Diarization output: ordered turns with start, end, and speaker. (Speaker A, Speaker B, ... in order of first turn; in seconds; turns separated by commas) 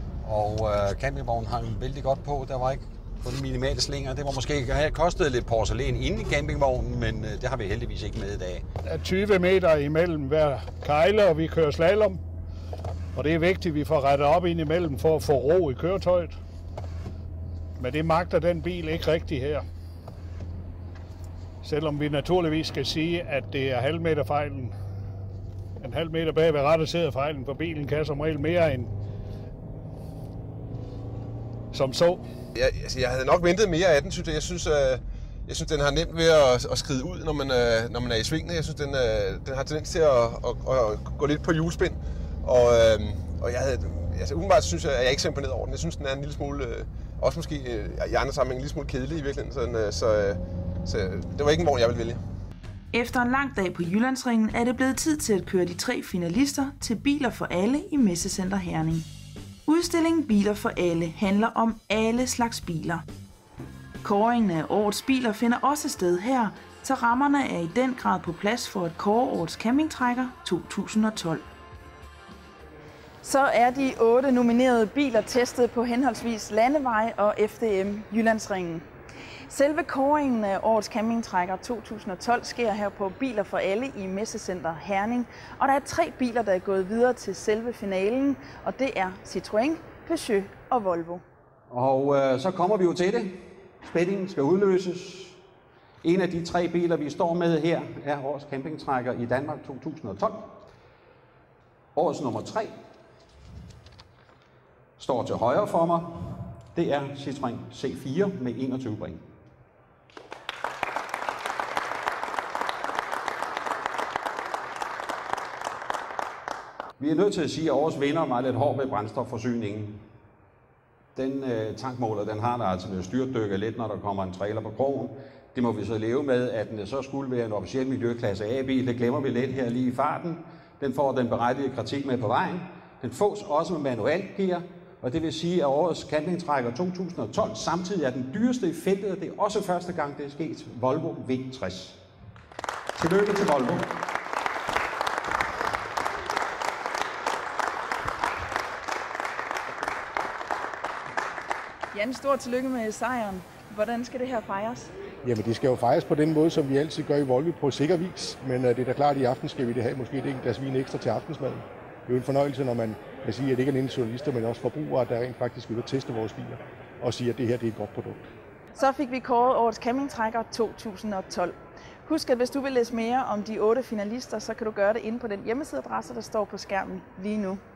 Speaker A: 0.2-8.6, Speaker B: 8.8-12.2, Speaker B: 13.1-16.4, Speaker B: 17.8-19.6, Speaker B: 21.6-24.7, Speaker B: 25.8-28.9, Speaker B: 31.7-32.2, Speaker C: 32.5-52.2, Speaker D: 52.9-59.1, Speaker D: 59.6-63.0, Speaker D: 64.0-71.4, Speaker D: 73.2-78.8, Speaker D: 79.5-91.2, Speaker A: 91.7-95.3, Speaker A: 96.0-100.6, Speaker A: 101.9-102.7, Speaker A: 105.0-109.2, Speaker A: 117.0-120.0, Speaker A: 121.1-142.0, Speaker A: 142.9-143.9, Speaker D: 151.9-154.9, Speaker E: 155.2-168.3, Speaker D: 168.8-177.6